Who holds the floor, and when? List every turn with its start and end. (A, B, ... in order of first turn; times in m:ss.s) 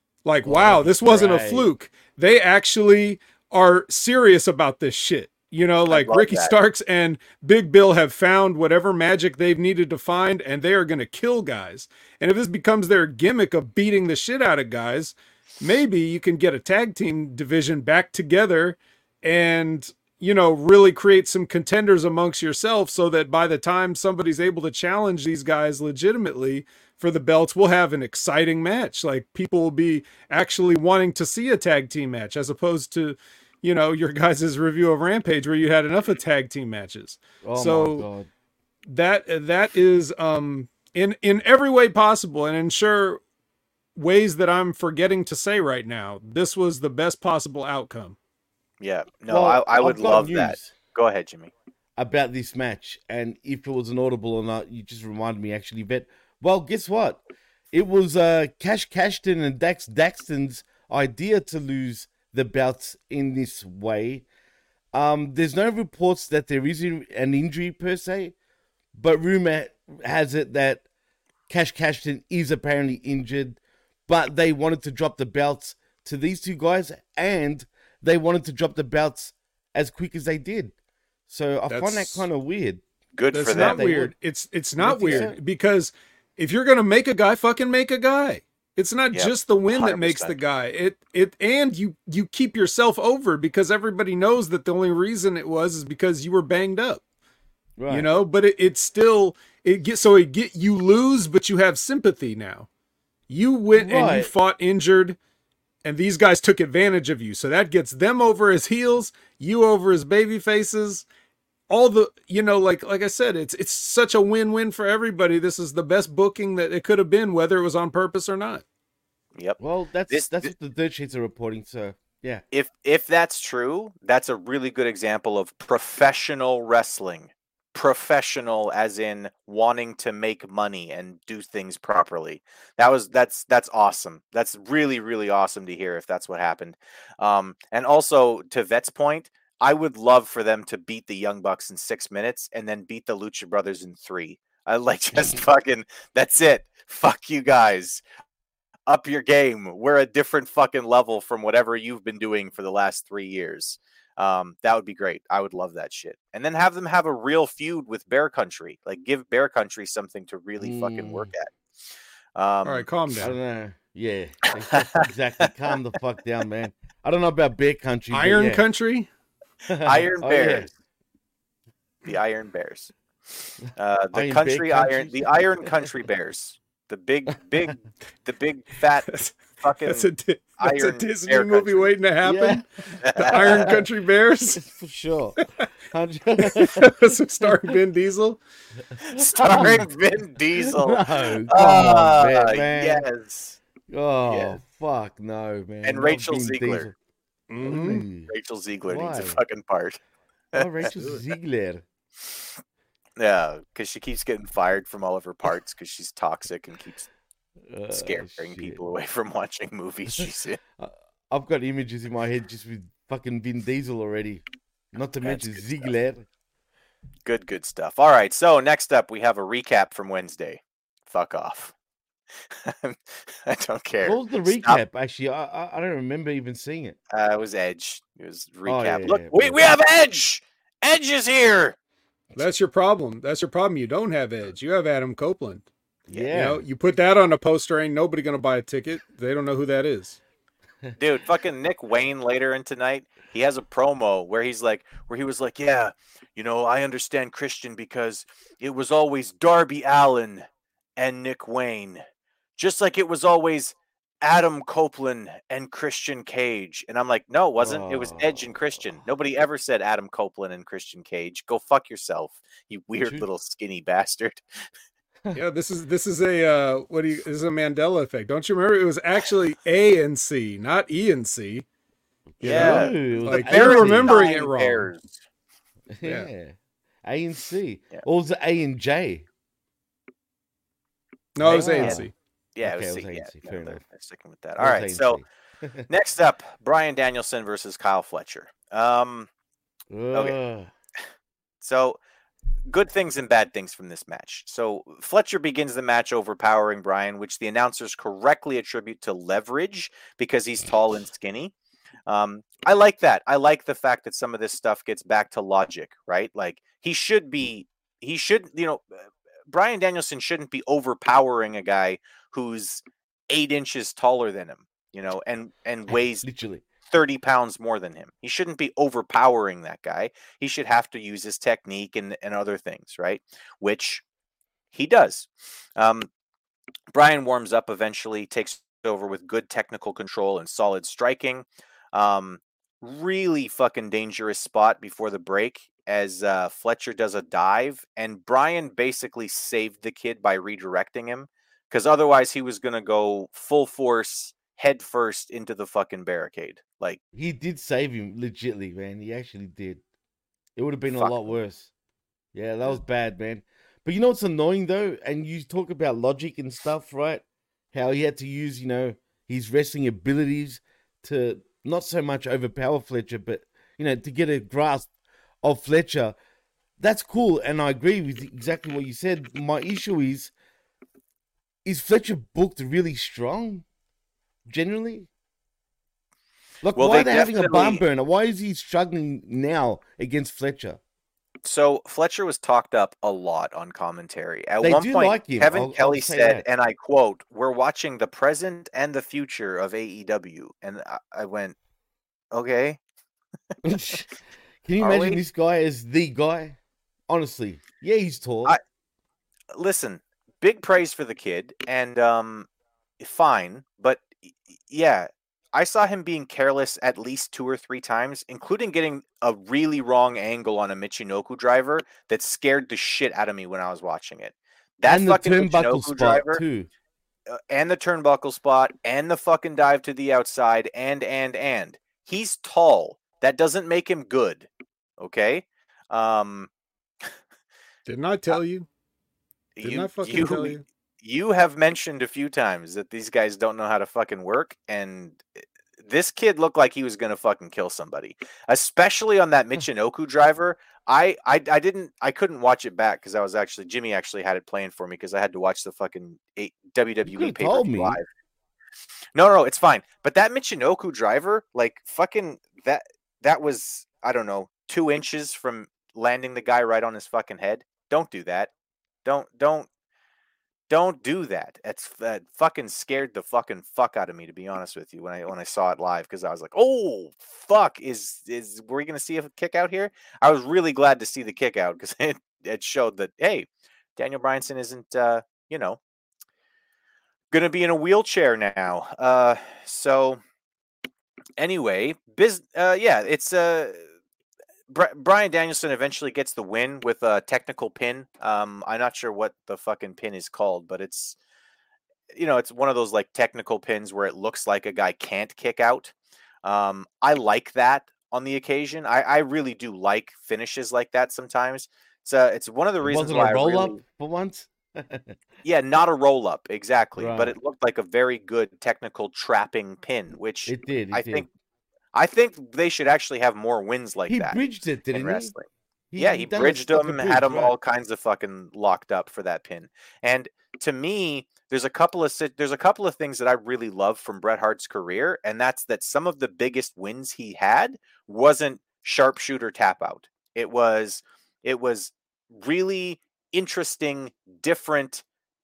0:00.2-0:38.1 A
0:00.4-0:01.7 B
0:05.9-0:06.5 C
0:37.4-0:38.3 B
0:38.9-0:43.2 A
0:44.0-0:48.2 A
0:48.8-0:51.5 C
0:49.3-0:50.7 B
0:52.0-1:04.2 B
1:04.9-1:08.3 B
1:08.9-1:10.8 B
1:11.5-1:20.7 B
1:21.3-1:22.8 B
1:21.7-1:22.2 A
1:23.2-1:23.9 C
1:23.3-1:37.0 A
1:23.5-1:24.1 B
1:24.8-1:25.4 B
1:29.1-1:30.4 C
1:37.8-1:38.1 B
1:37.9-1:42.7 A
1:43.3-1:45.2 A
1:43.7-1:44.3 B
1:45.8-1:51.0 A
1:51.7-1:58.6 A
1:59.4-2:00.5 C
1:59.6-2:02.4 B
2:02.5-2:28.0 C
2:28.9-2:41.5 C
2:40.6-2:41.3 B
2:42.4-2:42.9 C
2:42.6-2:43.4 A
2:43.2-2:48.6 B
2:48.1-2:49.1 A
2:49.7-2:50.7 B
2:49.8-2:50.7 C
2:52.0-2:59.1 C
2:54.1-2:55.8 B
2:59.0-3:04.6 A
2:59.6-3:01.9 C
3:02.2-3:02.6 B
3:03.0-3:03.7 C
3:03.3-3:03.8 B
3:04.5-3:07.7 B
3:05.4-3:05.7 A
3:06.4-3:08.4 A
3:09.1-3:09.8 B
3:09.1-3:13.6 C
3:09.2-3:09.8 A
3:10.8-3:13.0 B
3:13.9-3:16.9 B
3:14.3-3:14.6 C
3:15.8-3:16.9 C
3:17.5-3:18.0 A
3:17.6-3:18.3 B
3:18.3-3:20.0 C
3:18.8-3:19.4 B
3:20.5-3:21.8 B
3:20.9-3:21.2 A
3:23.2-3:27.1 C
3:27.7-3:28.8 B
3:27.9-3:30.6 C
3:30.8-3:36.2 B
3:35.2-3:35.9 C
3:37.2-3:41.7 C
3:42.5-3:44.8 C
3:44.0-3:47.0 B
3:47.1-3:51.8 C
3:48.6-3:49.6 B
3:52.4-3:55.7 A
3:56.1-3:56.6 B
3:56.3-4:00.2 A
4:01.0-4:10.5 C
4:11.0-4:12.0 C
4:12.6-4:24.4 C
4:17.6-4:18.5 B
4:25.3-4:31.6 A
4:32.4-4:34.9 A
4:32.4-4:34.4 B
4:32.4-4:35.2 C
4:35.9-4:39.2 B
4:36.0-4:36.3 A
4:41.4-4:42.1 A
4:41.4-4:42.1 B
4:41.8-4:45.2 C
4:42.6-4:43.8 B
4:44.6-4:45.9 B
4:45.9-4:49.3 C
4:49.9-4:50.7 B
4:51.6-4:52.0 C
4:52.7-5:01.5 C
5:02.1-5:16.2 C
5:16.2-5:16.6 B
5:16.9-5:24.0 C
5:24.7-5:26.1 C
5:26.9-5:47.0 C
5:47.1-5:49.8 B
5:50.6-5:51.7 B
5:50.9-5:51.4 C
5:52.3-6:04.9 B
6:05.4-6:06.2 B
6:06.8-6:10.3 B
6:11.6-6:13.6 B
6:14.5-6:15.1 B
6:16.6-6:20.8 B
6:16.7-6:17.8 C
6:21.4-6:31.6 C
6:24.6-6:26.4 B
6:32.3-6:32.8 C
6:33.6-6:34.1 B
6:34.6-6:38.6 B
6:34.8-6:35.2 C
6:39.5-6:42.5 C
6:43.0-6:56.4 C
6:54.8-6:56.7 B
6:57.3-7:04.5 C
7:05.0-7:06.5 C
7:07.9-7:08.7 A
7:09.6-7:15.2 C
7:09.6-7:10.6 A
7:15.8-7:28.0 C
7:27.0-7:28.0 B
7:29.1-7:38.5 C
7:39.0-7:39.7 C
7:40.7-7:55.8 C
7:57.3-8:00.2 C
8:01.4-8:03.8 C
8:04.7-8:11.2 C
8:12.1-8:23.8 C
8:22.8-8:25.2 B
8:25.4-8:31.3 C
8:27.0-8:27.4 B
8:30.4-8:31.3 B
8:31.9-8:34.4 C
8:34.1-8:35.3 B
8:34.9-8:35.4 C
8:35.9-8:37.5 B
8:36.0-8:55.0 C